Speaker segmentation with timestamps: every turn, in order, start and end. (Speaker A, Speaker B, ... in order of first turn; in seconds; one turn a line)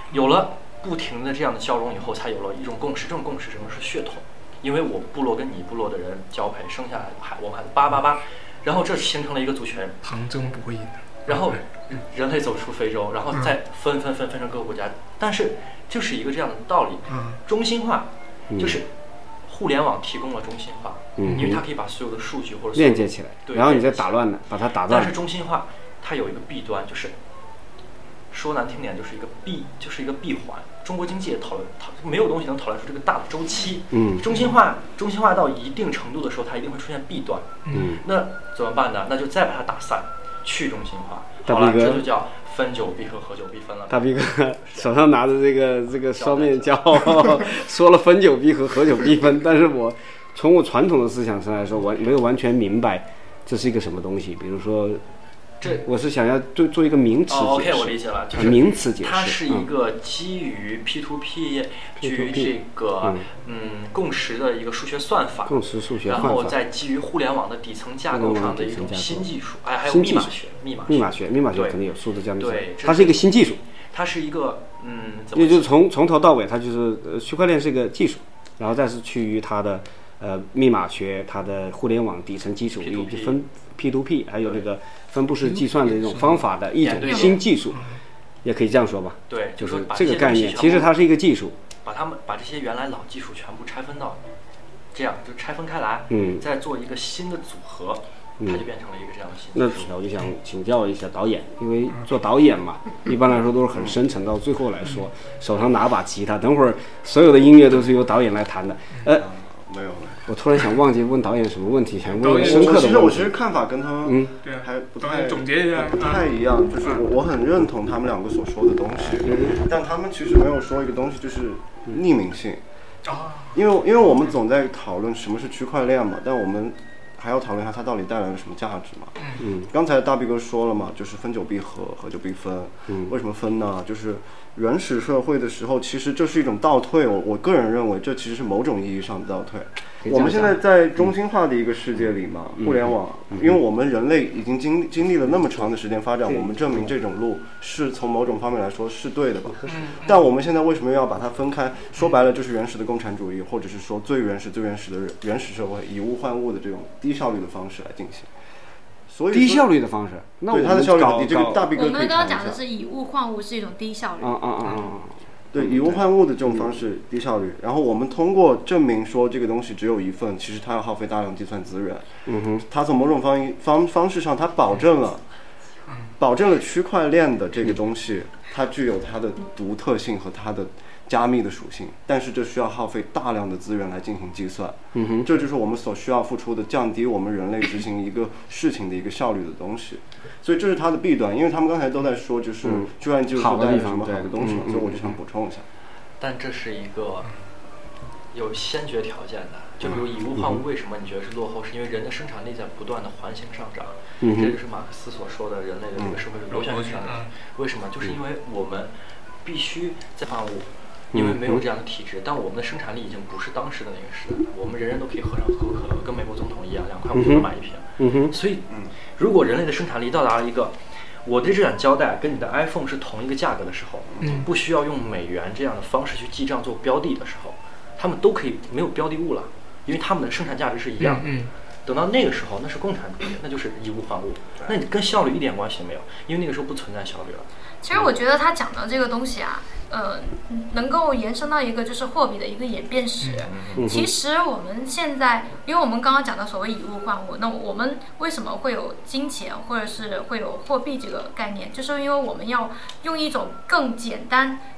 Speaker A: 0.1-10.0
Speaker B: 10.0-11.6
Speaker A: 11.3-18.9
Speaker B: 17.1-17.4
Speaker C: 18.5-18.8
Speaker A: 19.4-24.2
Speaker C: 21.2-21.6
Speaker B: 21.2-21.5
Speaker C: 22.8-25.1
Speaker A: 24.9-27.1
Speaker A: 28.3-44.9
Speaker C: 33.9-34.2
Speaker B: 37.6-38.0
Speaker C: 37.7-38.0
Speaker C: 41.5-42.1
Speaker C: 43.9-55.0
Speaker A: 46.1-47.3
Speaker C: 55.6-59.7
Speaker A: 57.3-71.8
Speaker C: 62.0-63.2
Speaker C: 65.5-66.6
Speaker C: 68.1-69.3
Speaker C: 69.8-70.3
Speaker C: 70.9-73.6
Speaker A: 72.4-73.3
Speaker A: 73.9-75.8
Speaker C: 75.3-87.9
Speaker A: 82.8-83.4
Speaker B: 85.4-86.5
Speaker A: 86.8-87.5
Speaker D: 87.0-87.4
Speaker B: 87.7-88.0
Speaker C: 88.4-91.6
Speaker A: 89.3-90.9
Speaker A: 91.8-94.2
Speaker A: 94.9-99.9
Speaker C: 96.1-96.4
Speaker C: 99.5-109.3
Speaker E: 109.1-110.3
Speaker C: 110.2-113.3
Speaker B: 112.1-113.0
Speaker E: 112.3-122.6
Speaker C: 114.0-114.3
Speaker B: 114.4-116.3
Speaker C: 119.2-119.6
Speaker B: 123.0-123.6
Speaker E: 123.5-158.3
Speaker C: 129.4-129.7
Speaker C: 140.0-141.1
Speaker C: 142.6-143.6
Speaker C: 146.2-146.9
Speaker B: 149.7-150.2
Speaker E: 159.1-159.7
Speaker C: 159.3-161.7
Speaker E: 160.5-162.6
Speaker D: 161.8-164.4
Speaker C: 164.2-166.7
Speaker E: 165.5-175.2
Speaker C: 172.2-172.6
Speaker B: 175.9-176.1
Speaker E: 176.2-195.6
Speaker C: 184.9-185.3
Speaker C: 192.6-195.2
Speaker A: 196.2-197.3
Speaker A: 198.3-231.3
Speaker C: 200.4-200.6
Speaker C: 204.2-204.5
Speaker B: 206.5-207.3
Speaker C: 211.1-211.6
Speaker C: 217.1-218.3
Speaker E: 224.1-224.4
Speaker B: 224.2-224.5
Speaker B: 231.0-231.5
Speaker A: 231.8-237.5
Speaker D: 237.8-254.6
Speaker A: 243.4-243.8
Speaker C: 243.8-244.1